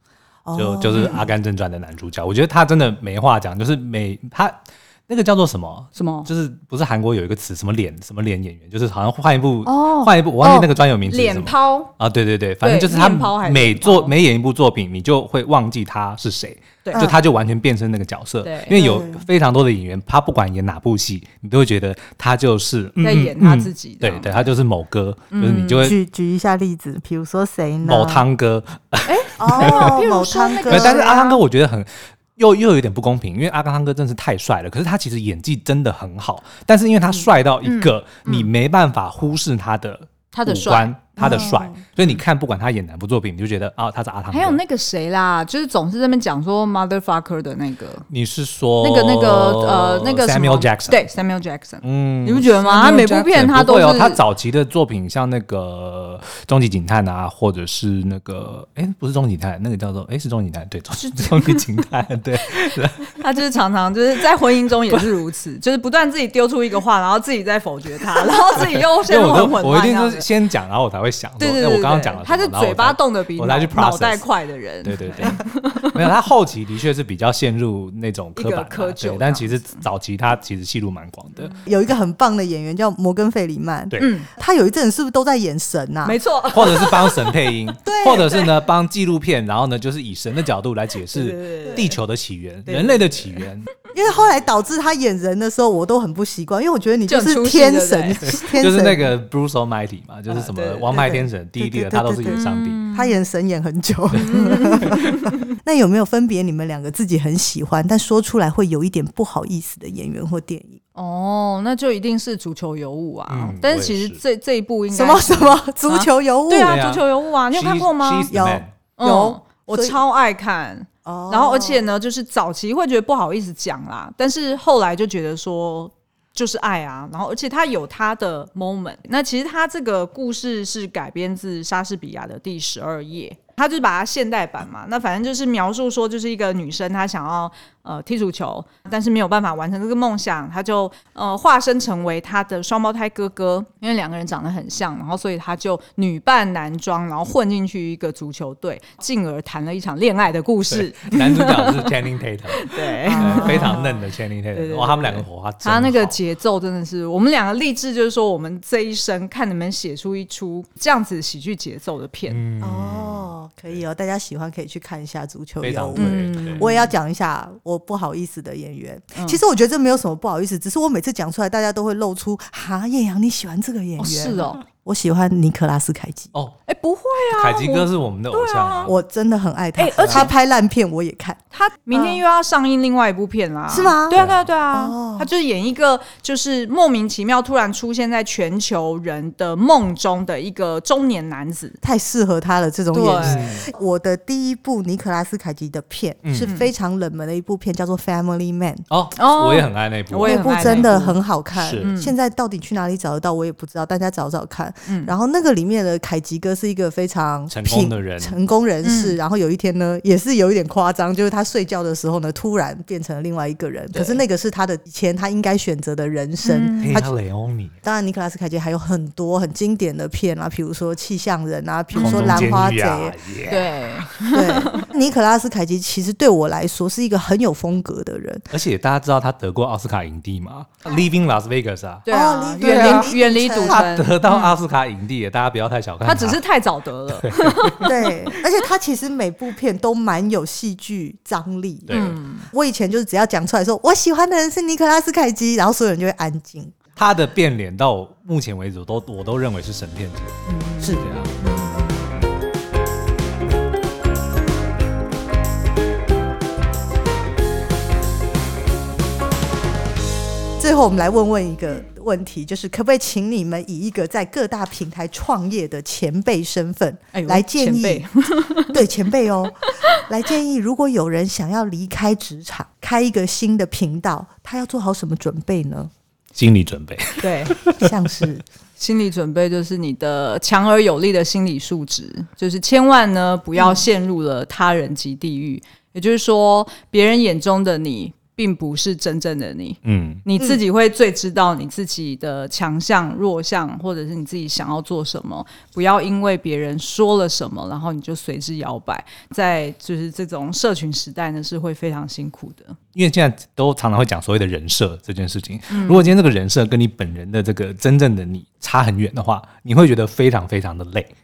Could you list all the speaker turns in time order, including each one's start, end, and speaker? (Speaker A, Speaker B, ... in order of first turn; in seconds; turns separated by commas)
Speaker A: 0.5-1.3, Speaker B: 0.6-26.0, Speaker C: 6.0-6.3, Speaker C: 9.6-11.9, Speaker C: 12.6-14.1, Speaker C: 16.9-17.1, Speaker C: 18.4-18.8, Speaker A: 18.7-19.2, Speaker C: 23.0-24.3, Speaker C: 25.3-25.9, Speaker A: 25.8-28.2, Speaker B: 27.9-29.9, Speaker C: 29.0-31.4, Speaker A: 29.4-31.1, Speaker B: 30.7-44.6, Speaker C: 37.6-38.5, Speaker C: 40.3-41.5, Speaker A: 41.2-41.8, Speaker C: 44.3-48.1, Speaker B: 48.1-51.0, Speaker C: 48.8-54.2, Speaker B: 51.8-63.1, Speaker C: 61.0-61.6, Speaker C: 63.1-70.3, Speaker B: 68.7-74.2, Speaker C: 71.4-76.0, Speaker B: 74.8-81.5, Speaker C: 78.4-79.8, Speaker A: 81.6-86.2, Speaker C: 84.0-84.3, Speaker C: 86.0-88.4, Speaker B: 86.5-93.7, Speaker A: 87.9-88.3, Speaker C: 91.1-91.9, Speaker A: 92.7-93.2, Speaker A: 93.9-99.1, Speaker C: 97.1-98.5, Speaker B: 98.5-102.8, Speaker C: 100.3-101.2, Speaker A: 101.6-110.8, Speaker C: 102.3-103.1, Speaker C: 104.1-105.4, Speaker C: 111.0-118.3, Speaker B: 113.3-114.2, Speaker A: 114.9-116.8, Speaker B: 116.7-118.7, Speaker A: 118.3-120.0, Speaker C: 119.0-151.9, Speaker A: 121.0-121.8, Speaker B: 150.7-156.2, Speaker C: 152.5-162.4, Speaker A: 153.1-153.9, Speaker B: 162.3-163.3, Speaker A: 162.6-176.3, Speaker B: 165.6-166.6, Speaker C: 165.9-166.9, Speaker C: 169.1-169.4, Speaker C: 174.0-174.6, Speaker C: 176.7-178.9, Speaker B: 177.3-178.9, Speaker A: 178.9-181.4, Speaker C: 179.8-180.3, Speaker C: 181.5-191.8, Speaker A: 181.9-182.2, Speaker A: 183.7-185.3, Speaker B: 184.1-184.4, Speaker A: 191.8-198.9, Speaker C: 192.9-193.5, Speaker B: 193.2-193.6, Speaker B: 196.2-196.5, Speaker C: 196.4-196.7, Speaker B: 198.9-201.0, Speaker C: 199.2-201.2, Speaker A: 200.2-217.1, Speaker B: 201.5-201.9, Speaker C: 201.8-202.1, Speaker C: 204.9-205.1, Speaker B: 207.5-208.4, Speaker C: 208.8-209.2, Speaker C: 213.9-214.2, Speaker C: 216.4-217.0, Speaker B: 216.8-217.7, Speaker A: 217.8-223.6, Speaker C: 221.9-222.6, Speaker B: 222.0-223.6, Speaker C: 223.5-224.9, Speaker A: 224.3-228.5, Speaker B: 228.5-232.1, Speaker C: 232.1-234.5, Speaker A: 232.1-233.9, Speaker B: 232.6-236.4, Speaker C: 236.0-237.9, Speaker B: 237.2-237.9, Speaker A: 237.8-246.8, Speaker B: 241.9-242.2, Speaker C: 241.9-242.4, Speaker B: 246.9-251.4, Speaker C: 250.4-252.1, Speaker A: 250.8-251.1, Speaker A: 260.6-268.1, Speaker C: 267.1-268.8, Speaker A: 268.7-275.9, Speaker B: 276.4-277.9, Speaker C: 277.2-277.5, Speaker A: 277.7-278.4, Speaker C: 278.8-302.8, Speaker A: 283.6-283.8, Speaker B: 289.9-290.2, Speaker B: 302.9-311.1, Speaker C: 305.7-306.1